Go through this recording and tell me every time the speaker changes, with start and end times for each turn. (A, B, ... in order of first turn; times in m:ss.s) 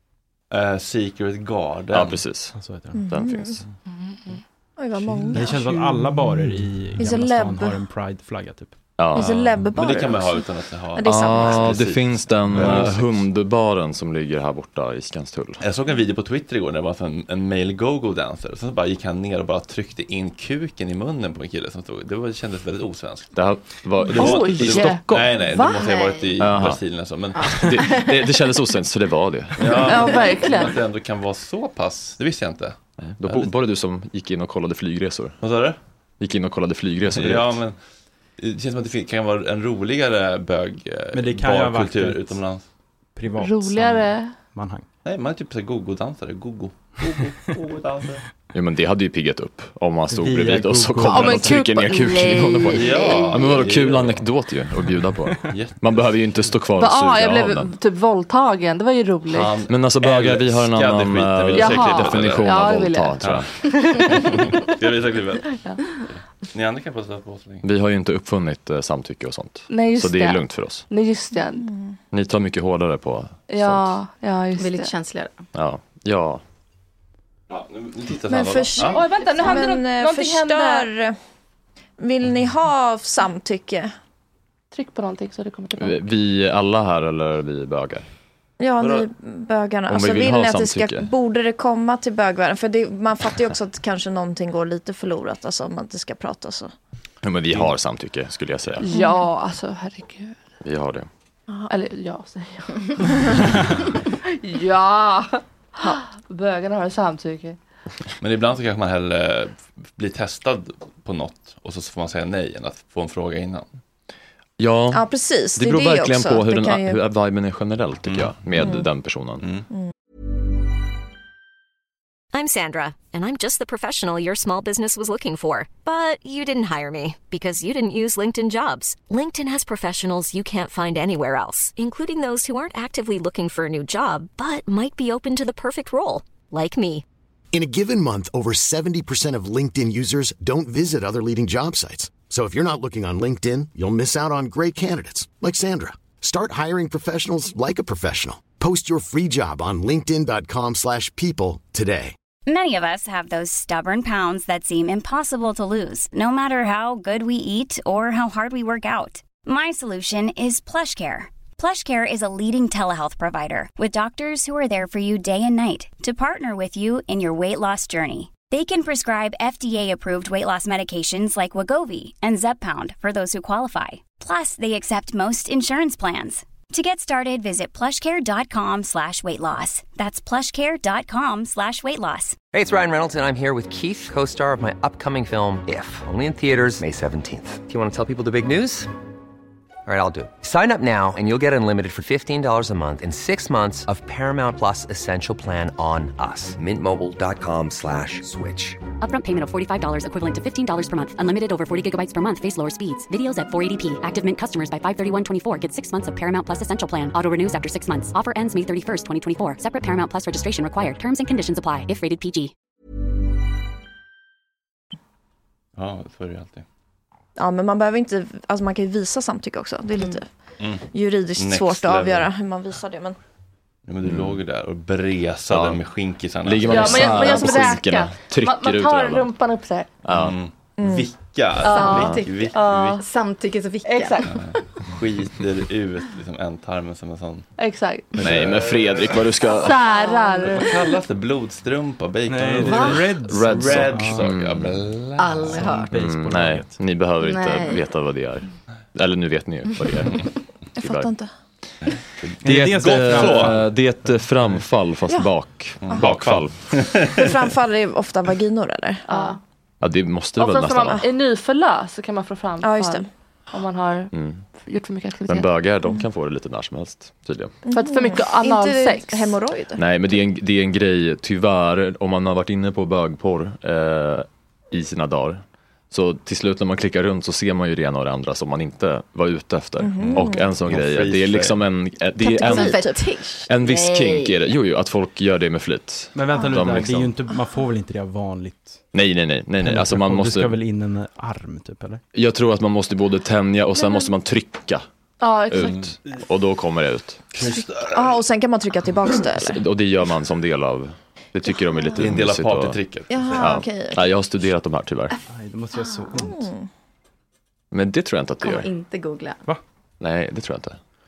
0:00.5-0:02.2 A
0:01.9-0:03.6 B
0:02.5-0:03.0 C
0:02.9-0:03.6 D
0:04.8-0:05.8 D
0:05.0-0:08.8 C
0:07.0-0:07.8 D
0:09.0-0:09.6 B
0:09.1-0:11.9 D
0:09.2-0:13.2 A
0:11.0-0:15.6 B
0:12.5-0:12.8 C
0:15.6-0:23.3 A
0:23.3-0:25.3 B
0:24.0-0:25.8 E
0:24.1-0:27.8 A
0:25.5-0:26.3 F
0:26.4-0:26.8 B
0:27.4-0:28.2 F
0:27.5-0:30.1 B
0:29.6-0:33.5 A
0:29.8-0:30.8 E
0:33.0-0:35.4 B
0:35.4-0:35.8 A
0:36.2-0:37.6 B
0:37.1-0:37.8 A
0:38.4-0:42.6 A
0:41.1-0:42.4 C
0:43.2-0:44.0 C
0:43.4-0:44.3 E
0:44.5-0:44.9 C
0:45.0-0:48.2 A
0:48.5-0:57.7 B
0:50.1-0:51.6 C
0:51.0-0:53.3 E
0:52.7-0:54.2 A
0:53.0-0:53.3 F
0:55.5-0:56.5 A
0:56.8-0:59.5 E
0:59.3-1:02.5 A
0:59.7-1:03.5 B
1:01.5-1:04.6 E
1:03.2-1:03.5 A
1:04.0-1:05.5 A
1:05.5-1:05.8 E
1:06.5-1:07.6 A
1:07.6-1:10.8 B
1:09.7-1:11.7 E
1:12.1-1:13.9 B
1:13.5-1:14.9 E
1:14.6-1:15.5 F
1:15.5-1:16.4 B
1:17.5-1:19.1 A
1:18.3-1:21.2 D
1:18.8-1:20.9 E
1:22.0-1:23.9 D
1:24.7-1:26.0 E
1:25.8-1:28.0 B
1:28.6-1:36.7 D
1:28.8-1:29.0 A
1:29.9-1:31.1 B
1:37.2-1:38.8 B
1:38.8-1:40.4 E
1:38.9-1:39.2 D
1:40.6-1:41.1 B
1:41.7-1:43.5 E
1:44.3-1:47.6 E
1:48.2-1:53.7 A
1:54.6-1:59.4 B
1:54.9-1:57.0 D
1:58.1-1:58.6 A
2:02.3-2:17.0 G
2:17.5-2:32.2 H
2:32.4-3:02.4 I
3:02.5-3:08.9 J
3:09.9-3:18.8 J
3:19.0-3:32.5 K
3:35.8-3:36.6 A
3:37.4-3:40.3 D
3:40.6-3:40.8 A
3:40.9-3:43.2 D
3:41.4-3:42.3 A
3:43.8-3:47.6 A
3:44.0-3:44.4 B
3:45.5-3:45.8 B
3:46.4-3:49.3 B
3:46.6-3:49.9 E
3:50.0-3:50.4 B
3:50.1-3:53.0 A
3:50.8-3:51.1 D
3:51.6-3:53.0 E
3:51.6-3:54.6 F
3:53.8-3:54.4 E
3:54.3-3:57.5 A
3:57.6-3:58.1 E
3:58.1-3:59.3 A
3:58.2-3:59.8 B
3:59.4-4:00.8 E
3:59.9-4:00.7 F
4:00.4-4:05.8 A
4:02.3-4:04.3 C
4:02.6-4:03.0 F
4:03.2-4:04.8 B
4:05.2-4:05.9 F
4:05.5-4:06.8 C
4:05.9-4:11.1 B
4:07.2-4:07.8 F
4:10.8-4:11.3 D
4:12.2-4:13.6 A
4:12.4-4:14.1 C
4:12.4-4:17.1 B
4:15.1-4:15.3 D
4:15.8-4:17.3 A
4:17.1-4:19.4 D
4:19.0-4:19.4 E
4:19.8-4:21.0 B
4:20.4-4:25.5 E
4:22.6-4:23.1 D
4:24.1-4:24.4 B
4:25.3-4:27.6 B
4:27.7-4:29.8 D
4:27.7-4:29.4 E
4:29.8-4:42.9 B
4:39.8-4:40.5 D
4:40.0-4:41.6 A
4:42.2-4:43.0 D
4:42.2-4:44.6 F
4:43.5-4:47.1 B
4:46.1-4:48.8 C
4:48.9-4:50.6 B
4:49.6-4:52.0 C
4:52.1-4:54.8 B
4:55.2-4:55.8 E
4:55.5-4:57.3 B
4:55.6-4:55.9 A
4:57.3-4:58.2 A
4:57.4-4:59.6 D
4:59.4-5:02.8 B
5:01.6-5:02.0 D
5:02.0-5:03.1 A
5:03.1-5:04.1 D
5:03.3-5:05.1 B
5:05.3-5:06.5 C
5:05.8-5:06.2 F
5:06.2-5:06.7 D
5:07.7-5:08.7 B
5:08.4-5:09.4 F
5:10.0-5:10.8 B